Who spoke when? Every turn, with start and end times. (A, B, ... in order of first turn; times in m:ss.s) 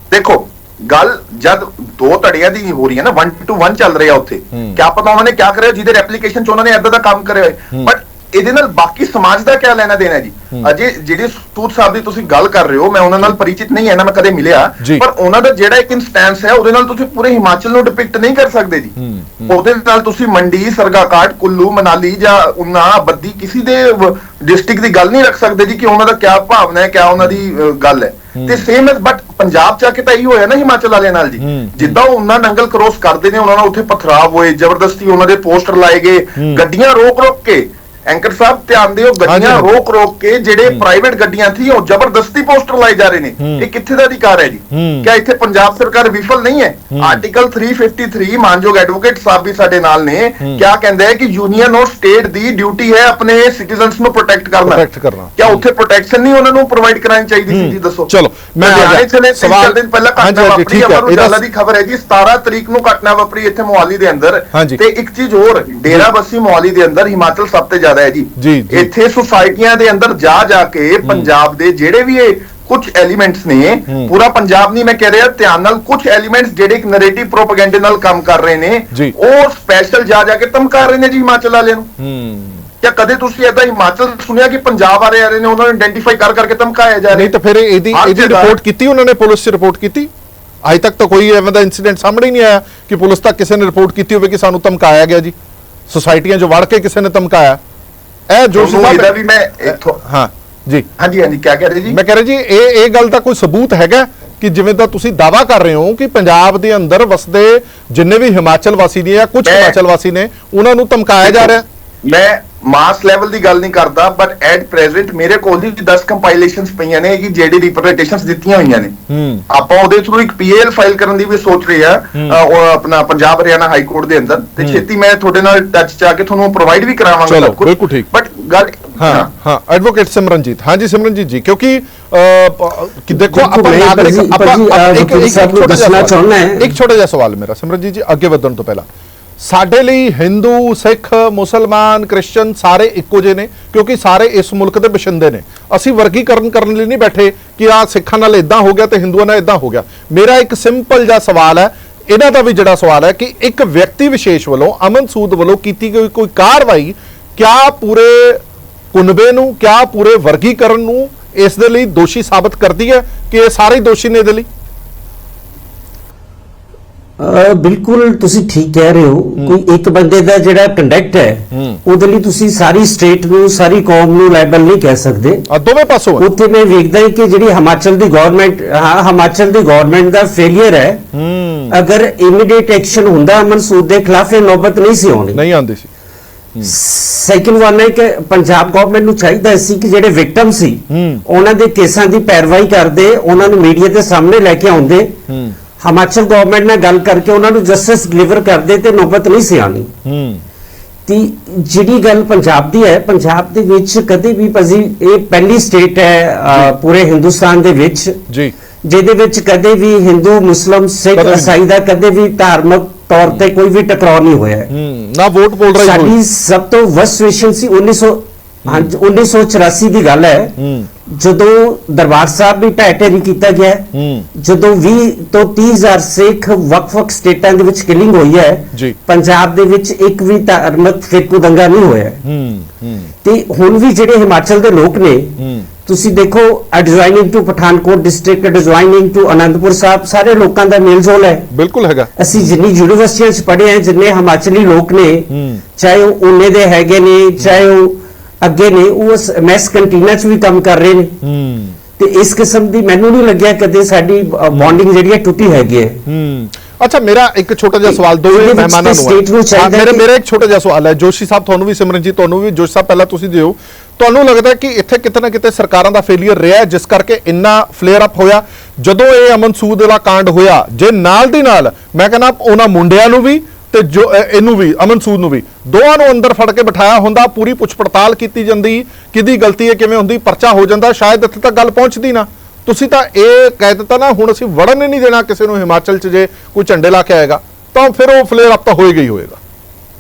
0:00.1-0:54.9 A
0:04.5-0:04.8 B
0:19.0-0:19.6 B
0:28.4-0:28.6 B
0:31.4-0:32.0 B
0:39.2-0:39.7 B
0:43.4-0:43.7 B
0:44.7-0:45.1 B
0:46.9-0:47.2 B
0:54.6-0:55.6 B
0:55.4-1:21.9 A
0:57.5-1:01.4 B
1:04.5-1:04.8 B
1:08.4-1:08.9 B
1:11.0-1:11.3 B
1:22.0-1:22.7 B
1:22.8-1:27.3 A
1:27.1-1:30.1 B
1:27.9-1:28.6 A
1:30.6-1:35.4 B
1:35.9-1:37.6 B
1:38.3-1:39.1 B
1:38.6-1:40.0 A
1:40.0-1:40.9 B
1:41.0-1:42.0 A
1:41.9-1:51.6 B
1:49.4-1:49.8 A
1:51.2-1:51.5 A
1:52.0-1:59.0 A
1:59.1-1:59.4 B
1:59.5-2:09.3 A
2:07.3-2:08.1 B
2:09.0-2:18.9 B
2:13.1-2:16.7 C
2:19.4-2:38.4 B
2:38.9-2:44.5 B
2:47.2-2:55.5 C
2:51.5-2:51.8 B
2:55.5-2:56.3 B
2:56.2-3:01.1 C
3:01.1-3:01.8 B
3:01.7-3:05.4 C
3:05.3-3:05.9 B
3:06.6-3:15.2 C
3:10.9-3:11.2 B
3:15.3-3:15.6 B
3:15.8-3:19.9 C
3:20.0-3:20.4 B
3:21.1-3:28.2 C
3:26.5-3:26.8 B
3:28.3-3:28.5 B
3:28.8-3:34.7 C
3:31.2-3:31.6 B
3:34.7-3:36.2 B
3:35.8-3:40.6 C
3:38.6-3:38.9 B
3:40.6-3:40.9 B
3:41.1-3:52.2 C
3:43.9-3:44.3 B
3:52.2-3:53.1 B
3:53.2-4:01.5 C
3:55.4-3:55.7 B
4:01.5-4:02.6 B
4:02.2-4:11.2 C
4:05.3-4:05.6 B
4:11.2-4:11.8 B
4:12.0-4:16.0 C
4:14.5-4:14.8 B
4:16.1-4:49.4 B
4:17.8-4:20.0 C